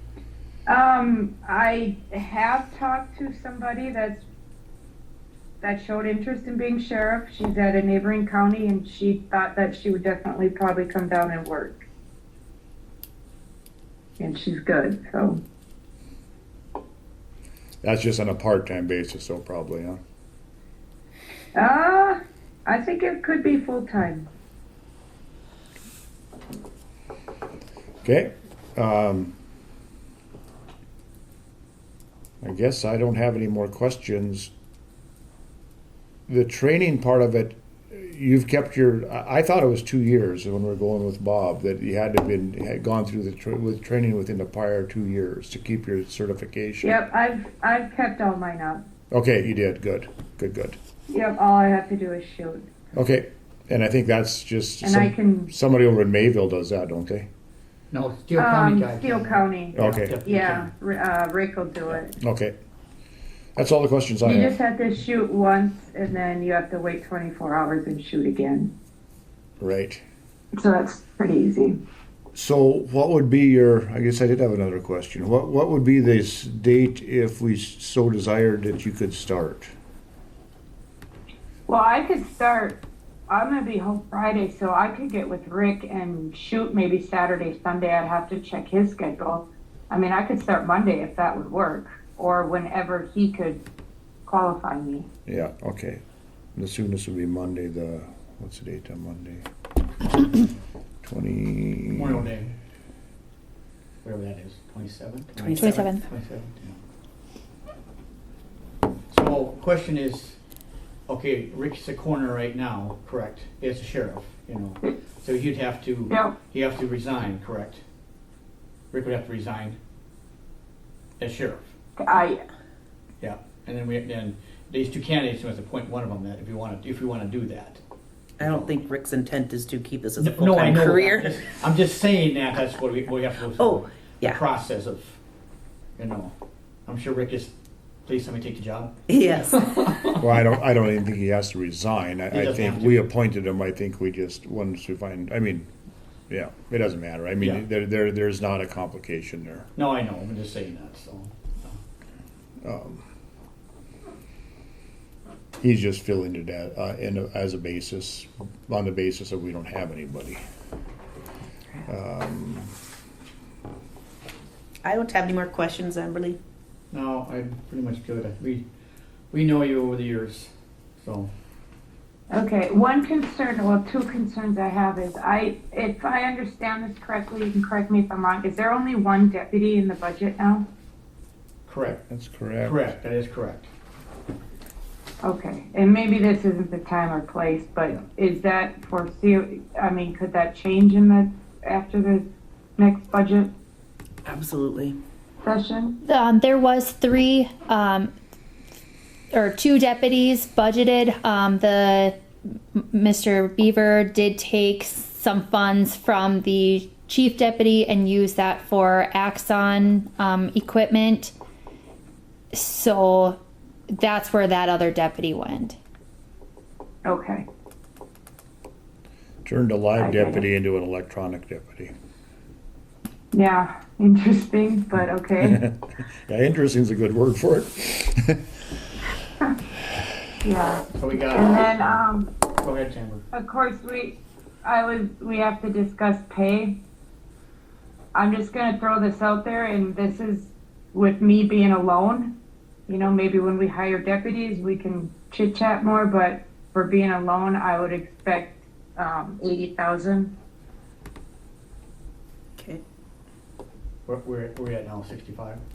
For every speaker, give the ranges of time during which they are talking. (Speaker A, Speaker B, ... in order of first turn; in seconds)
Speaker A: 0.7-4.2, 5.6-11.8, 14.2-15.4, 21.6-24.3, 46.8-48.8, 51.1-52.7, 54.8-55.5, 58.4-62.2, 64.2-68.7, 70.5-71.8, 81.7-93.6, 94.3-95.1, 116.1-116.4, 122.0-122.5, 172.3-180.7, 185.2-192.2, 192.8-193.5, 195.4-196.0, 217.0-217.5, 220.0-220.4, 223.3-225.6, 230.4-232.3, 233.3-236.8, 238.1-242.3, 242.9-250.3
Speaker B: 17.8-20.0, 28.0-29.4, 32.4-34.5, 36.3-47.0, 49.1-50.8, 52.9-57.3, 59.8-60.2, 61.9-62.6, 63.6-64.6, 69.6-70.0, 72.3-79.7, 95.3-96.0, 96.5-99.5, 101.0-102.3, 140.2-145.7, 146.3-149.7, 152.6-153.1, 155.6-160.4, 161.9-162.7, 182.1-182.9, 219.4-221.9, 225.4-228.4
Speaker C: 57.9-60.7, 101.9-102.5, 104.0-106.8, 109.1-110.4, 111.1-117.8, 118.9-119.8, 121.2-121.7, 123.2-127.8, 128.4-128.7, 130.2-135.2, 136.0-136.3, 136.9-137.5, 138.1-139.0, 139.5-140.2, 142.3-143.1, 147.4-147.6, 149.8-151.8, 166.9-168.7, 169.3-171.3, 181.7-182.0, 182.6-183.7, 231.0-232.0, 232.6-233.2, 254.1-255.6
Speaker D: 105.4-105.9, 128.4-131.5, 133.6-134.4, 139.1-139.9, 164.8-166.4, 194.3-195.0, 252.6-252.8
Speaker E: 105.6-106.0, 196.0-198.1, 199.3-202.2, 202.7-211.3, 212.5-213.4, 213.9-215.8